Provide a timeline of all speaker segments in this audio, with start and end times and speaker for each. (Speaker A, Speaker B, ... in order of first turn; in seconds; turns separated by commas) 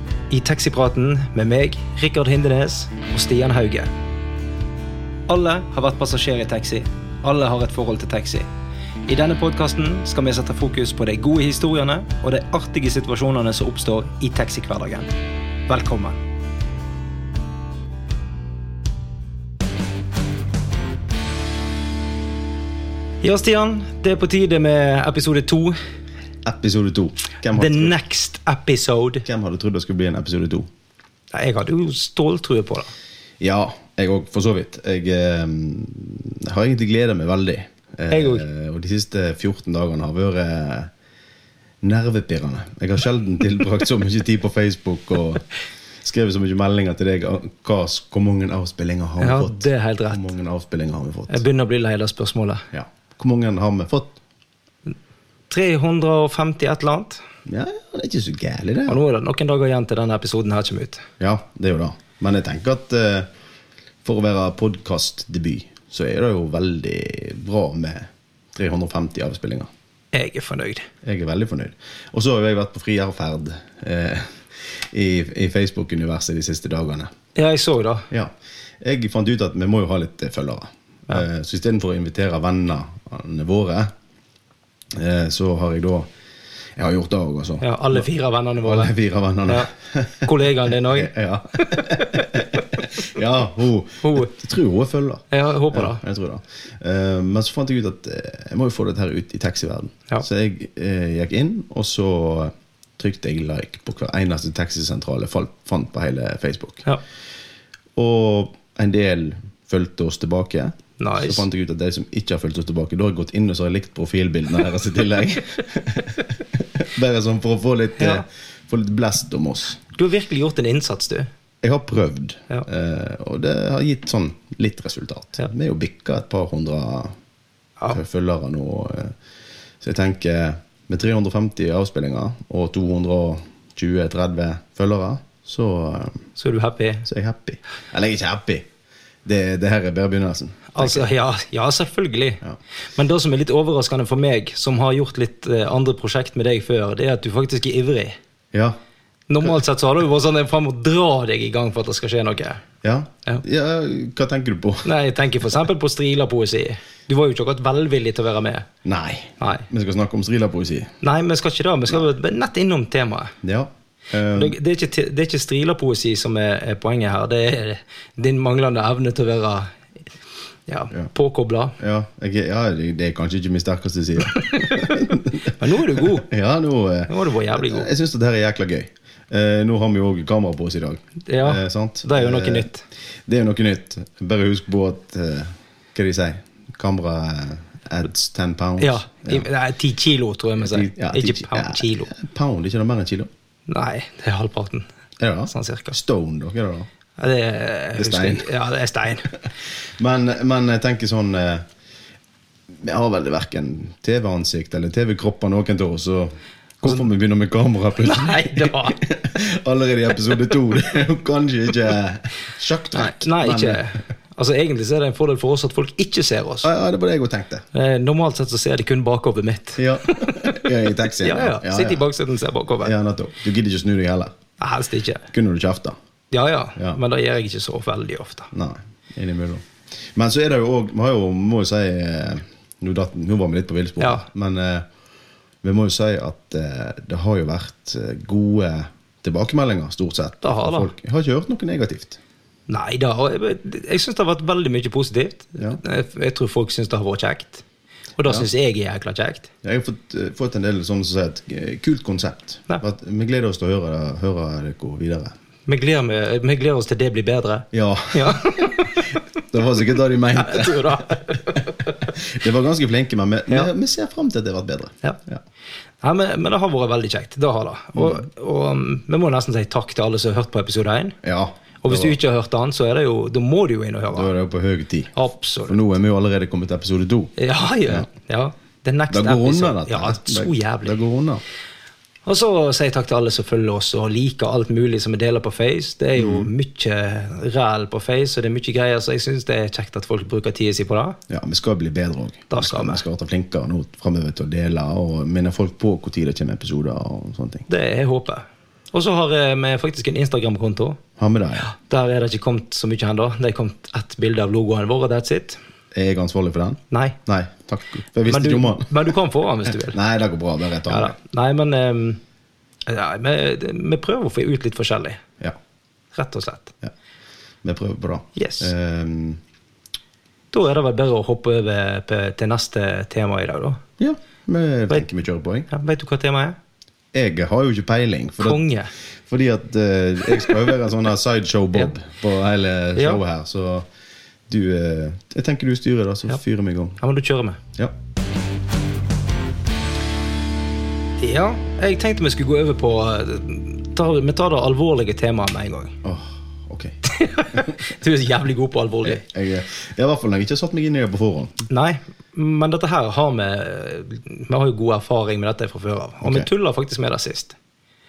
Speaker A: 0.3-3.9, Speaker A: 5.3-8.5, Speaker A: 9.1-15.1, Speaker A: 15.7-16.2, Speaker A: 23.2-25.8, Speaker B: 26.4-27.9, Speaker A: 27.5-29.3, Speaker B: 29.2-30.7, Speaker A: 31.3-32.9, Speaker B: 33.4-40.9, Speaker A: 38.1-38.5, Speaker B: 41.8-45.5, Speaker B: 46.0-51.4, Speaker A: 49.2-50.2, Speaker A: 51.3-52.7, Speaker B: 52.7-54.2, Speaker A: 55.5-57.2, Speaker B: 57.5-59.0, Speaker A: 58.9-61.0, Speaker B: 61.2-63.3, Speaker B: 64.0-69.7, Speaker A: 70.1-70.9, Speaker B: 71.0-77.1, Speaker A: 77.3-78.1, Speaker B: 78.1-83.9, Speaker B: 84.9-86.1, Speaker B: 86.8-88.1, Speaker A: 87.6-88.9, Speaker B: 88.6-106.9, Speaker A: 90.2-92.9, Speaker A: 94.0-94.3, Speaker A: 95.3-96.0, Speaker B: 108.0-119.8, Speaker A: 111.0-111.4, Speaker A: 118.0-118.2, Speaker A: 119.9-121.3, Speaker B: 121.6-127.1, Speaker B: 127.9-129.2, Speaker B: 129.8-136.2, Speaker A: 136.4-137.1, Speaker B: 137.1-138.7, Speaker B: 139.2-141.1, Speaker A: 140.7-142.4, Speaker A: 142.9-148.2, Speaker A: 149.3-152.6, Speaker B: 152.8-154.9, Speaker A: 154.8-158.7, Speaker B: 158.8-160.9, Speaker A: 159.4-159.7, Speaker A: 161.0-163.4, Speaker B: 163.4-164.6, Speaker A: 164.3-169.7, Speaker A: 170.7-171.8, Speaker B: 171.8-182.7, Speaker A: 174.3-176.3, Speaker A: 177.1-177.9, Speaker A: 181.3-182.8, Speaker B: 183.3-189.5, Speaker A: 188.8-192.1, Speaker B: 190.6-193.3, Speaker A: 193.7-194.9, Speaker B: 195.2-196.9, Speaker A: 195.5-196.0, Speaker A: 197.2-199.3, Speaker B: 198.0-198.5, Speaker B: 200.0-201.6, Speaker B: 202.7-213.8, Speaker A: 208.0-209.0, Speaker A: 212.9-216.7, Speaker B: 216.6-217.7, Speaker A: 217.7-222.9, Speaker B: 219.8-222.0, Speaker B: 222.8-224.4, Speaker A: 224.6-225.2, Speaker B: 225.3-226.0, Speaker A: 226.3-228.5, Speaker B: 228.5-234.8, Speaker A: 234.0-234.2, Speaker B: 235.6-242.2, Speaker A: 240.4-240.9, Speaker A: 242.7-247.6, Speaker A: 248.2-249.5, Speaker B: 249.6-255.3, Speaker A: 255.7-259.1, Speaker B: 257.7-258.8, Speaker B: 259.5-265.4, Speaker A: 260.4-262.1, Speaker A: 266.0-271.2, Speaker B: 267.9-268.3, Speaker B: 271.2-272.2, Speaker A: 271.8-274.3, Speaker B: 274.1-275.1, Speaker A: 275.1-275.8, Speaker B: 275.7-277.3, Speaker A: 277.4-280.9, Speaker B: 279.1-281.4, Speaker A: 282.3-291.2, Speaker B: 286.2-286.5, Speaker B: 291.3-297.7, Speaker A: 292.5-293.0, Speaker A: 297.7-301.0, Speaker B: 301.2-301.7, Speaker A: 301.6-305.6, Speaker B: 305.9-308.9, Speaker A: 306.9-307.2, Speaker A: 308.3-310.0, Speaker B: 309.7-311.1, Speaker A: 310.9-312.2, Speaker A: 312.9-315.2, Speaker A: 316.1-316.8, Speaker B: 317.6-319.4, Speaker A: 318.4-318.7, Speaker A: 320.5-323.8, Speaker B: 324.0-325.7, Speaker A: 325.7-326.6, Speaker B: 327.1-328.6, Speaker A: 328.4-328.9, Speaker B: 329.3-333.9, Speaker A: 333.0-333.2, Speaker B: 334.5-337.0, Speaker A: 337.0-337.6, Speaker A: 341.2-345.9, Speaker B: 346.0-347.0, Speaker A: 347.1-349.2, Speaker B: 349.1-351.6, Speaker A: 351.7-357.6, Speaker B: 356.2-356.5